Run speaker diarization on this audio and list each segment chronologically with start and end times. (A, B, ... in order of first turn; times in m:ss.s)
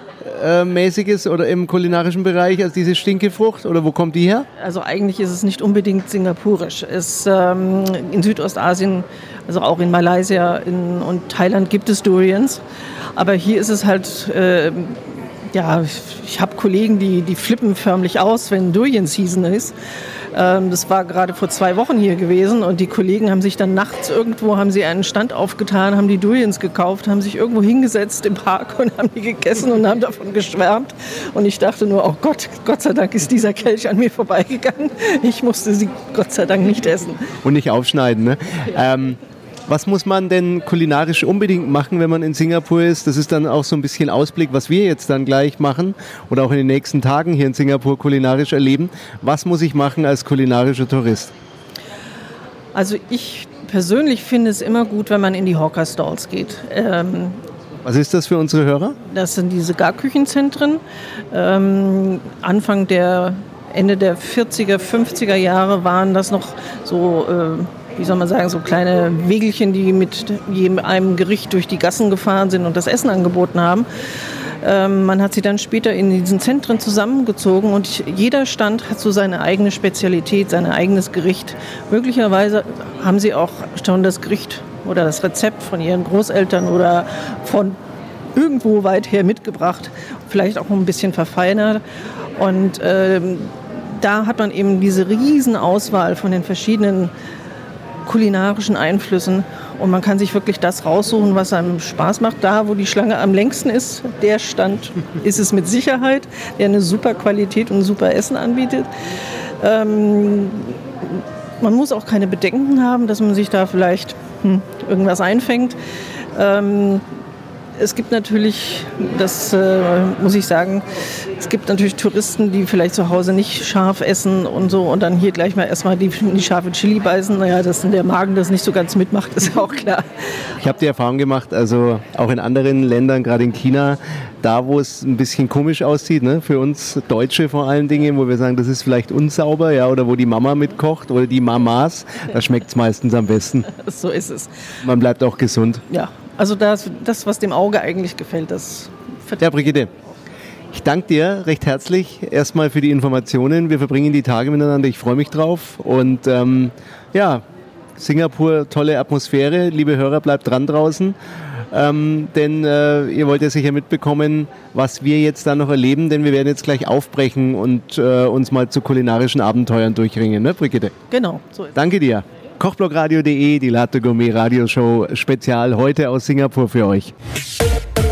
0:00.2-0:04.5 A
0:04.6-0:12.6 B
0:13.2-0:19.7 B
0:20.3-0:37.3 B
0:37.4-0:51.3 A
0:52.7-0:57.4 B
0:57.8-0:59.0 A
0:59.0-1:00.8 B
1:01.3-1:13.9 B
1:14.6-1:27.8 B
1:28.4-1:31.8 B
1:32.4-1:37.1 B
1:38.0-1:48.9 B
1:49.6-1:55.8 B
1:56.3-1:57.0 B
1:57.8-2:00.8 B
2:01.4-2:10.0 B
2:10.6-2:23.7 A
2:23.7-2:24.5 B
2:24.8-2:25.8 A
2:25.9-2:29.4 B
2:29.4-2:29.9 A
2:30.7-2:37.4 A
2:38.0-2:41.1 A
2:41.7-2:50.9 A
2:51.1-2:51.8 B
2:51.7-2:57.1 A